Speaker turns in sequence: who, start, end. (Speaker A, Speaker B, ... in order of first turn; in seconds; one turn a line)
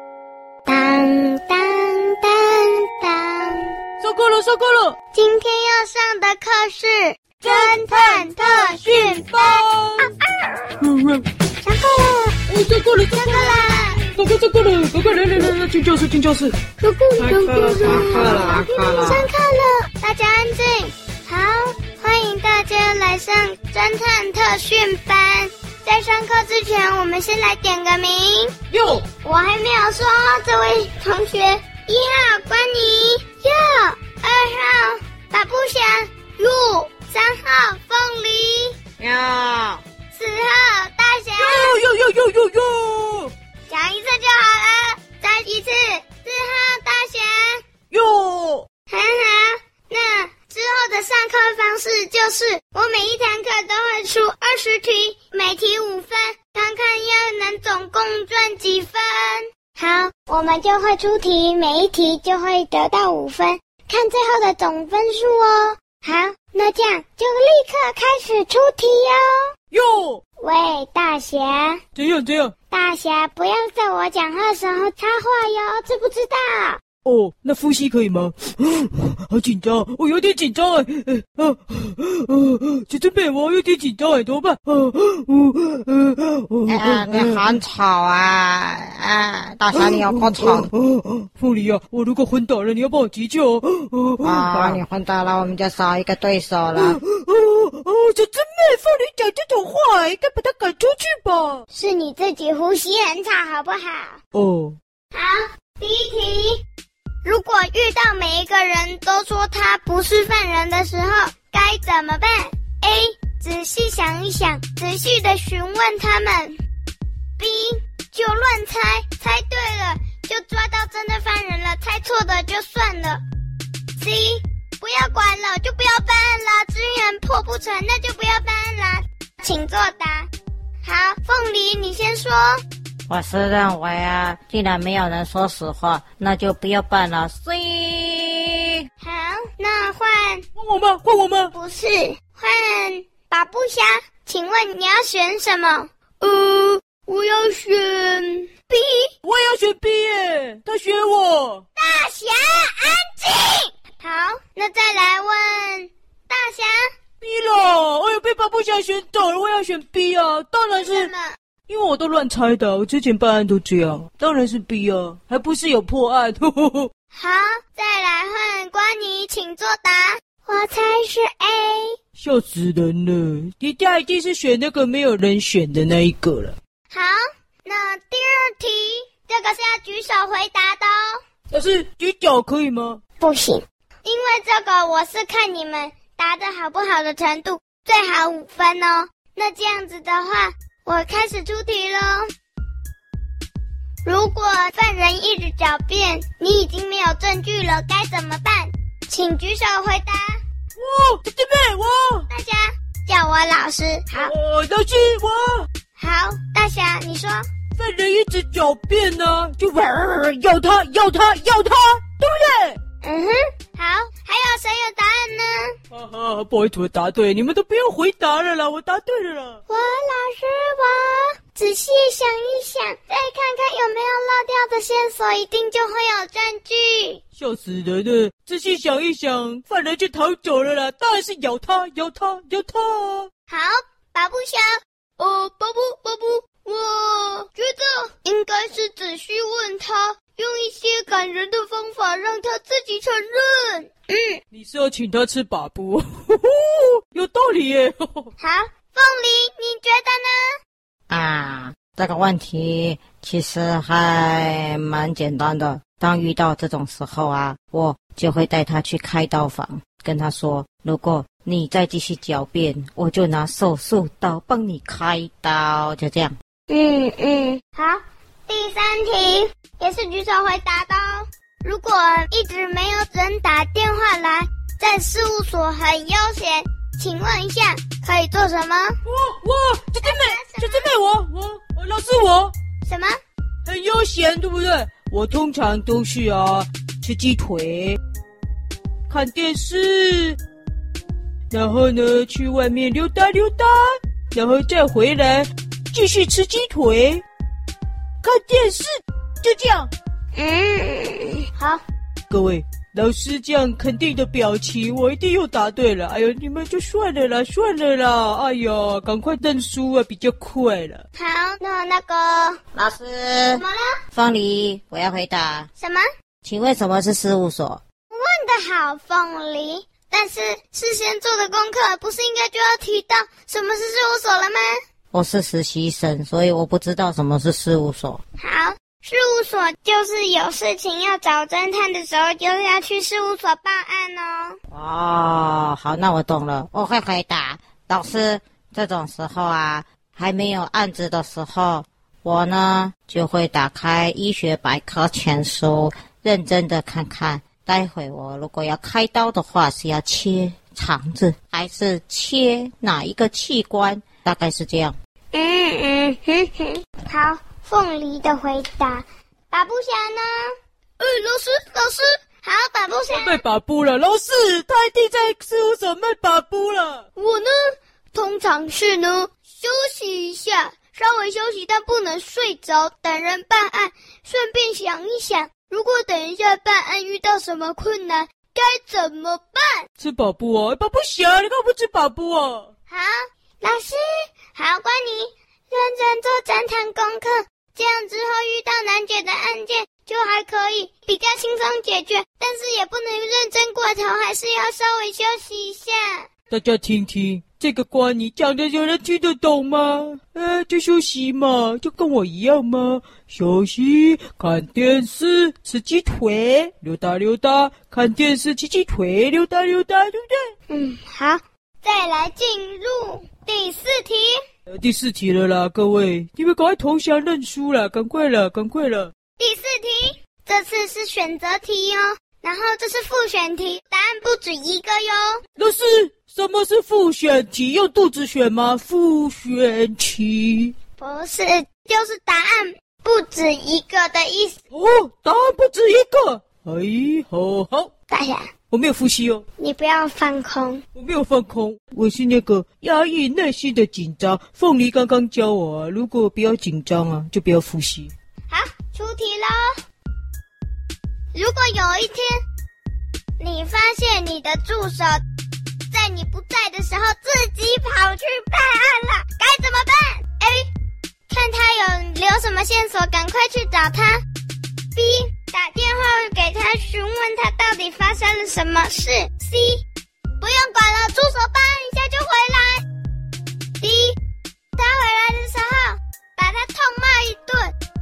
Speaker A: 0.7-3.8
Speaker B: 4.0-5.0
Speaker A: 5.1-10.8
Speaker B: 7.4-10.1
Speaker B: 10.8-11.2
Speaker A: 11.6-12.4
Speaker B: 12.5-16.6
Speaker A: 13.1-14.0
Speaker A: 16.8-28.6
Speaker B: 17.2-19.1
Speaker C: 17.8-19.3
Speaker B: 28.7-29.0
Speaker A: 29.1-38.8
Speaker C: 39.0-39.8
Speaker A: 40.1-41.7
Speaker B: 41.4-43.3
Speaker A: 43.7-47.6
Speaker B: 47.9-48.7
Speaker A: 48.9-69.5
Speaker B: 69.7-70.2
Speaker A: 70.4-71.8
Speaker B: 72.0-72.5
Speaker A: 72.7-76.8
Speaker B: 77.0-87.6
Speaker C: 86.7-90.7
Speaker B: 89.7-94.8
Speaker C: 94.2-97.0
Speaker B: 96.7-101.6
Speaker A: 101.7-104.2
Speaker B: 104.3-104.8
Speaker A: 105.1-106.6
Speaker A: 107.2-116.6
Speaker A: 117.4-123.2
Speaker A: 124.0-130.3
Speaker A: 130.8-132.6
Speaker C: 133.1-138.7
Speaker A: 139.0-140.4
Speaker B: 140.6-141.5
Speaker A: 141.5-149.1
Speaker B: 149.2-151.6
Speaker A: 151.8-156.9
Speaker B: 157.2-161.1
Speaker A: 160.8-161.4
Speaker B: 161.7-166.9
Speaker A: 167.1-171.9
Speaker B: 172.2-176.6
Speaker A: 176.9-181.2
Speaker B: 181.5-183.0
Speaker A: 183.2-192.3
Speaker A: 194.1-200.4
Speaker B: 200.8-202.3
Speaker A: 202.3-204.3
Speaker B: 204.1-205.7
Speaker A: 206.0-207.5
Speaker B: 207.8-212.8
Speaker A: 213.0-215.8
Speaker B: 215.9-219.6
Speaker A: 219.7-227.2
Speaker B: 227.4-233.3
Speaker A: 233.5-244.4
Speaker B: 244.5-248.3
Speaker A: 248.4-250.6
Speaker C: 251.1-266.4
Speaker A: 266.7-279.0
Speaker B: 279.1-282.5
Speaker A: 280.0-280.9
Speaker A: 282.9-283.2
Speaker B: 283.6-288.0
Speaker B: 289.1-290.4
Speaker B: 291.5-297.2
Speaker B: 298.2-298.9
Speaker B: 299.4-299.9
Speaker A: 300.4-301.8
Speaker B: 302.3-311.0
Speaker A: 311.1-312.6
Speaker C: 312.7-315.7
Speaker A: 313.6-313.9
Speaker A: 315.8-316.0
Speaker C: 316.4-317.8
Speaker A: 318.1-324.7
Speaker C: 325.1-328.2
Speaker A: 328.4-334.6
Speaker C: 334.7-354.9
Speaker A: 355.3-363.4
Speaker B: 363.1-367.1
Speaker A: 367.2-379.9
Speaker B: 380.0-382.7
Speaker A: 382.9-384.0
Speaker A: 384.5-396.3
Speaker B: 396.5-410.5
Speaker A: 410.7-414.4
Speaker B: 414.7-419.1
Speaker A: 419.4-425.4
Speaker B: 425.6-430.7
Speaker A: 431.0-434.6
Speaker B: 434.7-437.9
Speaker A: 438.1-438.5
Speaker B: 438.7-439.4
Speaker A: 439.6-440.8
Speaker B: 440.9-448.1
Speaker A: 448.5-449.7
Speaker A: 451.3-452.4
Speaker A: 453.4-455.2
Speaker A: 455.9-460.7
Speaker A: 461.3-464.2
Speaker A: 464.9-469.8
Speaker A: 470.4-472.8
Speaker A: 473.8-474.2
Speaker A: 474.8-477.7